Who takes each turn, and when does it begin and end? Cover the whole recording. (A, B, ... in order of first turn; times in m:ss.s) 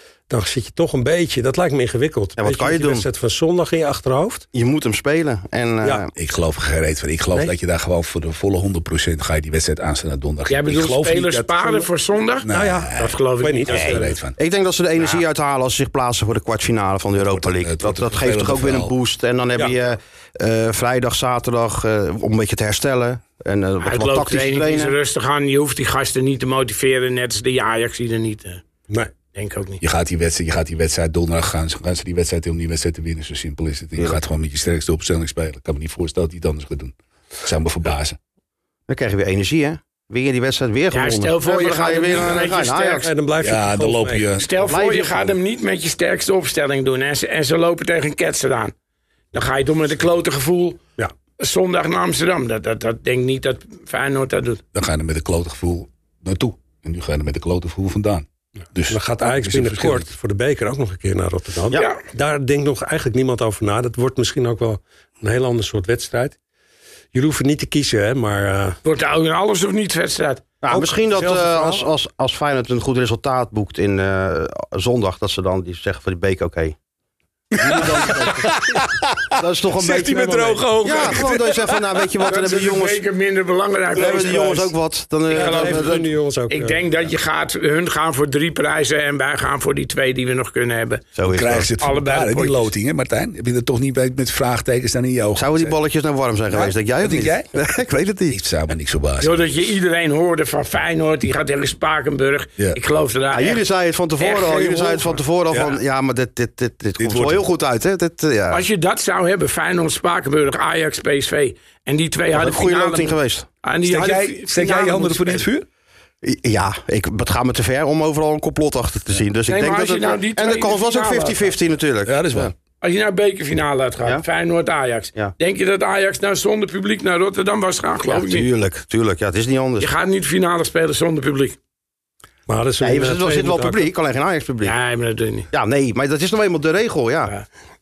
0:00.3-0:04.5 A
0:02.4-0:03.1 B
0:04.5-0:06.1 B
0:06.2-0:11.9 C
0:10.5-0:14.2 D
0:12.4-0:13.2 C
0:12.5-0:14.2 A
0:13.7-0:14.4 C
0:14.4-0:25.0 B
0:17.4-0:18.9 C
0:23.8-0:28.6 D
0:29.3-0:29.8 D
0:29.8-0:38.2 C
0:38.9-0:43.1 B
0:40.9-0:43.1 D
0:43.0-0:44.3 A
0:43.4-0:44.5 C
0:44.4-0:48.7 D
0:44.6-0:45.3 B
0:49.3-0:50.8 D
0:51.4-0:54.6 D
0:54.7-1:00.1 C
0:58.9-1:06.4 A
1:01.7-1:02.0 D
1:07.1-1:08.8 A
1:08.8-1:10.5 D
1:10.6-1:16.8 B
1:10.7-1:11.9 A
1:17.5-1:22.1 C
1:17.6-1:23.0 B
1:22.2-1:24.7 D
1:23.9-1:26.1 B
1:25.3-1:26.0 D
1:25.3-1:26.9 A
1:26.5-1:31.1 D
1:31.2-1:31.7 B
1:31.3-1:35.8 C
1:31.8-1:32.7 D
1:35.4-1:38.4 B
1:36.5-1:37.6 C
1:38.3-1:39.6 C
1:39.2-1:43.6 D
1:43.3-1:48.6 B
1:44.2-1:45.2 D
1:47.0-1:47.4 C
1:48.5-1:55.5 D
1:52.3-1:53.5 B
1:53.8-1:55.7 C
1:56.2-2:02.5 B
1:59.5-2:01.5 D
2:02.1-2:02.5 C
2:02.8-2:08.5 D
2:08.1-2:09.9 B
2:09.8-2:11.6 D
2:12.5-2:13.9 A
2:12.8-2:14.8 B
2:14.6-2:15.5 D
2:15.5-2:17.3 B